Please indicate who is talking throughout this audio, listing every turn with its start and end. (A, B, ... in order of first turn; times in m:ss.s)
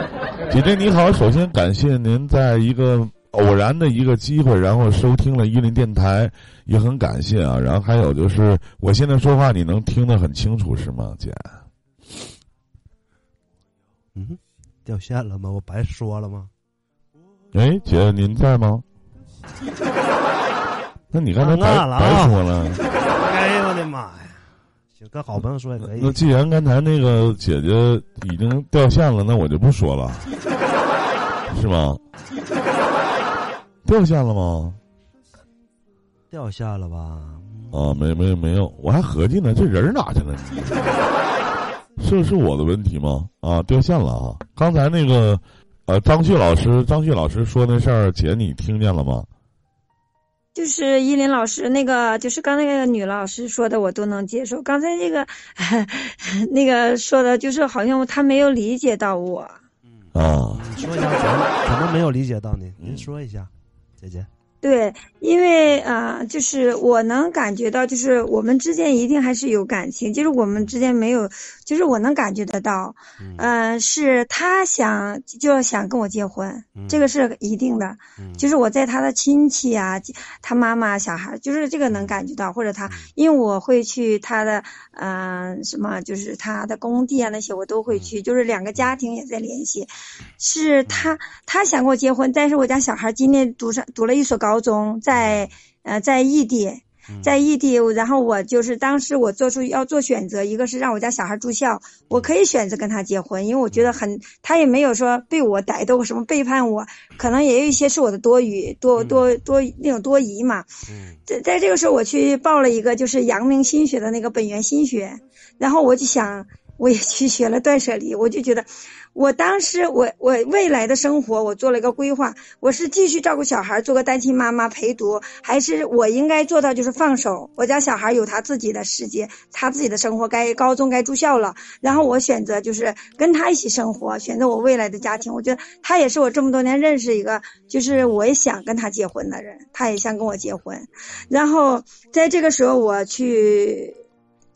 0:00.5-0:11.6 A
0:14.2-0:16.5 B
0:17.5-0:18.8 A
0:21.1-0:22.8 A
0:21.4-0:22.4 B
0:23.1-0:26.2 B
0:25.8-0:30.3 A
0:31.5-0:32.0 A
0:33.8-0:34.8 A
0:36.3-0:37.9 B
0:37.7-0:41.0 A
0:42.0-0:49.3 A
0:50.6-0:59.6 C
0:59.9-1:04.3 B
1:00.2-1:00.8 A
1:02.8-1:03.1 A
1:04.6-2:24.0 C
1:13.2-1:13.5 B
1:16.7-1:17.1 B
1:18.2-1:18.5 B
1:21.9-1:22.2 B
1:30.9-1:31.2 B
1:35.1-1:35.5 B
1:37.1-1:37.4 B
1:49.0-1:49.3 B
1:50.9-1:51.2 B